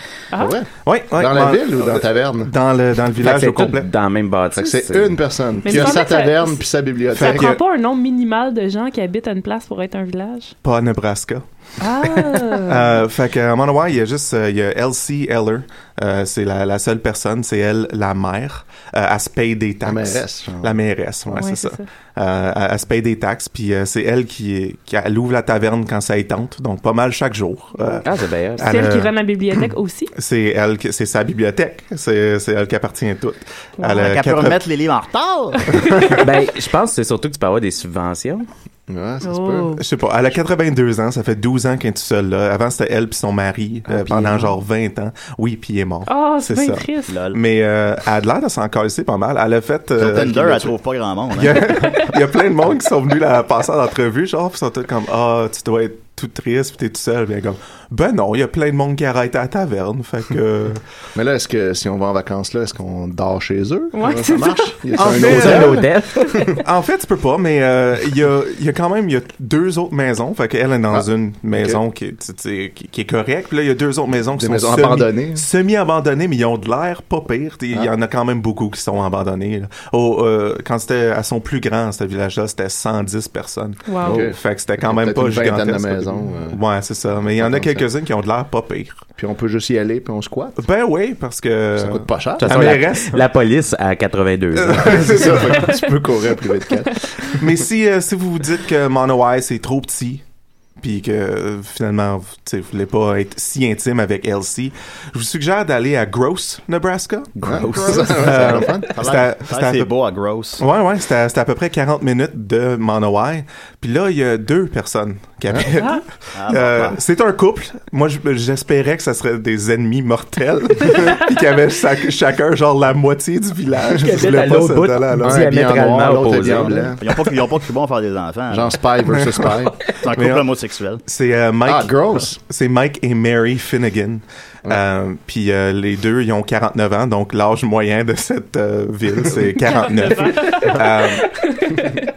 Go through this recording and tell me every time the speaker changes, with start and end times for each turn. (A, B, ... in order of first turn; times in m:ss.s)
0:00.3-0:00.6 A
0:00.4-0:02.5 B
0:00.8-0:03.9 C
0:03.2-0:05.2 D
0:04.5-0:07.6 B
0:05.6-0:06.6 A
0:07.1-0:07.6 C
0:07.2-0:10.6 A
0:10.6-0:11.4 C
0:11.8-0:12.9 A
0:12.0-0:28.1 C
0:19.8-0:20.7 B
0:21.4-0:21.9 A
0:28.0-0:28.7 D
0:28.6-0:29.1 C
0:28.6-0:30.1 A
0:30.2-0:34.6 C
0:34.0-0:35.8 E
0:36.0-0:36.2 C
0:36.2-0:38.4 D
0:38.9-0:39.8 B
0:39.2-0:39.8 A
0:39.8-0:50.7 C
0:44.0-0:44.4 B
0:46.1-0:47.1 A
0:47.1-0:47.4 E
0:50.0-0:52.1 E
0:51.3-1:00.8 C
1:01.2-1:06.4 B
1:03.9-1:04.9 A
1:05.0-1:05.9 C
1:05.0-1:06.5 D
1:06.6-1:29.1 C
1:10.9-1:11.8 B
1:14.4-1:15.4 B
1:23.9-1:24.2 A
1:24.0-1:26.6 B
1:27.4-1:27.8 B
1:29.2-1:30.6 B
1:30.6-1:33.2 C
1:31.8-1:32.9 B
1:32.4-1:35.3 D
1:34.6-1:35.8 C
1:34.7-1:37.2 B
1:37.3-1:40.2 C
1:40.8-1:49.9 C
1:47.4-1:48.4 D
1:47.4-1:48.9 B
1:47.7-1:50.6 E
1:50.6-2:05.5 C
1:55.8-1:56.0 A
1:56.4-1:57.0 E
2:03.9-2:06.9 D
2:05.2-2:07.1 B
2:07.0-2:08.8 E
2:08.5-2:09.8 B
2:10.0-2:11.0 E
2:10.1-2:10.5 C
2:11.1-2:21.4 C
2:11.6-2:12.4 B
2:19.7-2:22.0 A